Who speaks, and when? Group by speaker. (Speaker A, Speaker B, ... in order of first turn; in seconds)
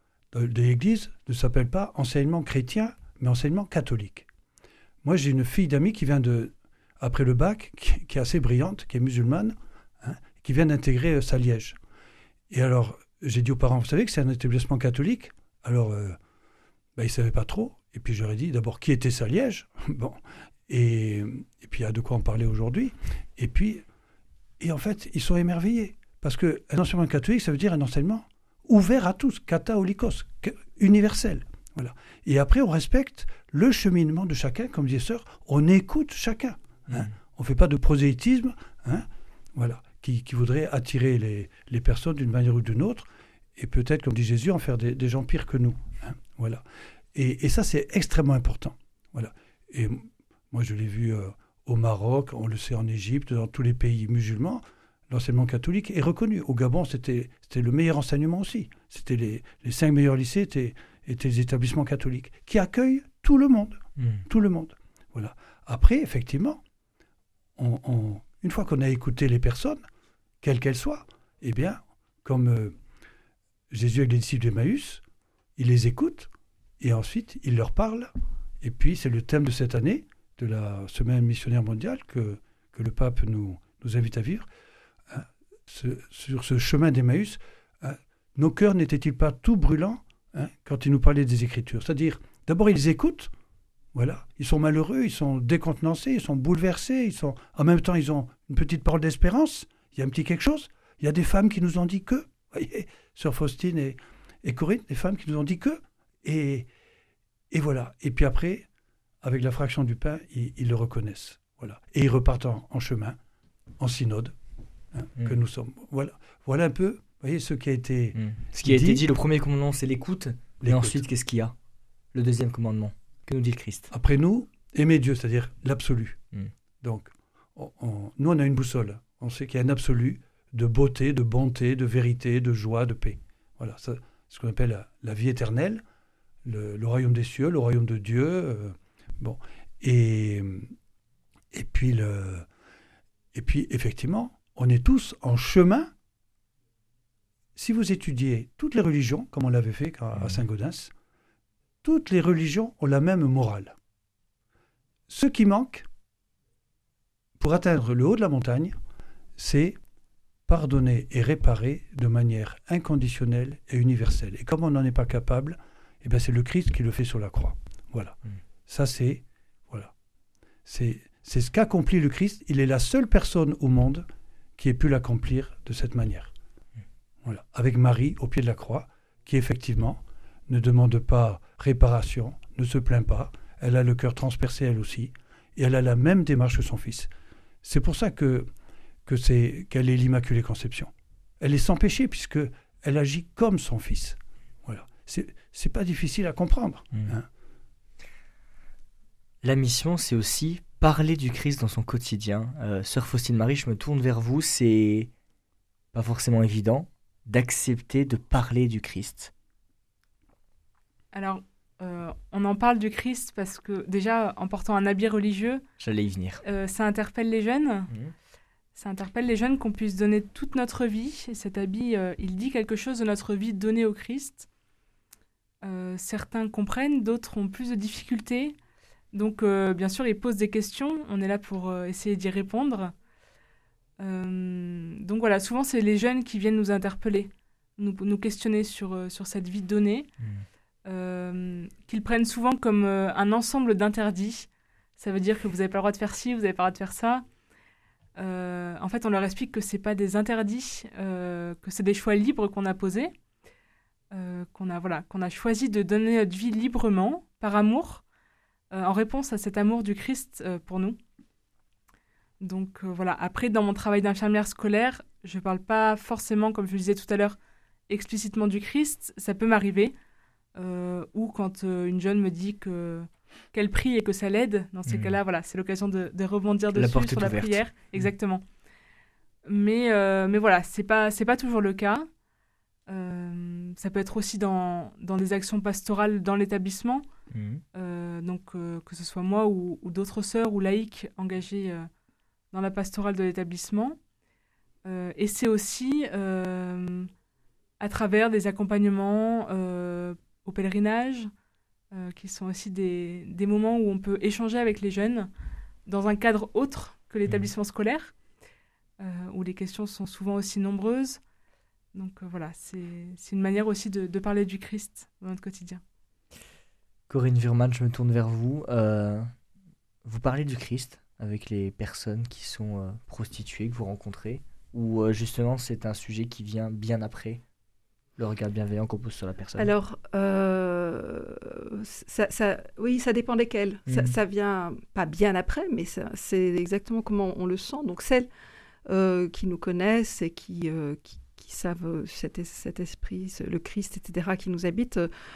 Speaker A: 0.3-4.3, 5.0-11.8, 12.5-16.2, 16.9-23.8, 24.6-66.6, 67.5-69.8, 70.4-72.8, 73.7-75.0, 75.5-84.5, 85.1-93.3, 93.9-106.7, 107.5-108.7, 109.2-113.2, 113.8-114.3, 114.9-119.0, 120.6-121.0, 123.9-126.2, 126.8-135.8, 136.4-140.7, 141.5-142.4, 143.3-145.9, 147.6-150.9, 151.8-153.8, 155.1-155.8, 157.4-158.8, 159.4-159.8, 160.5-169.9, 170.7-174.1, 174.6-176.3, 177.2-187.1, 187.6-188.5, 189.1-197.3
Speaker B: 118.2-121.5, 122.1-123.9, 199.4-205.1, 205.9-209.3, 215.8-216.4, 240.2-240.4, 274.9-275.2, 276.7-278.1, 287.3-287.6, 317.1-319.3, 320.0-327.4, 328.2-329.7, 333.9-334.1
Speaker C: 211.1-215.6, 216.4-217.9, 218.7-224.4, 225.6-228.6, 229.1-232.9, 234.0-240.1, 240.8-247.2, 248.2-253.1, 254.1-258.0, 258.7-261.0, 262.4-267.4, 267.9-269.9, 270.6-278.4, 279.4-282.1, 282.9-287.0, 287.8-291.9, 292.5-294.0, 294.8-297.1, 297.8-301.3, 301.9-305.3, 305.9-308.1, 309.0-311.2, 311.9-315.8
Speaker D: 329.6-338.3, 338.9-345.1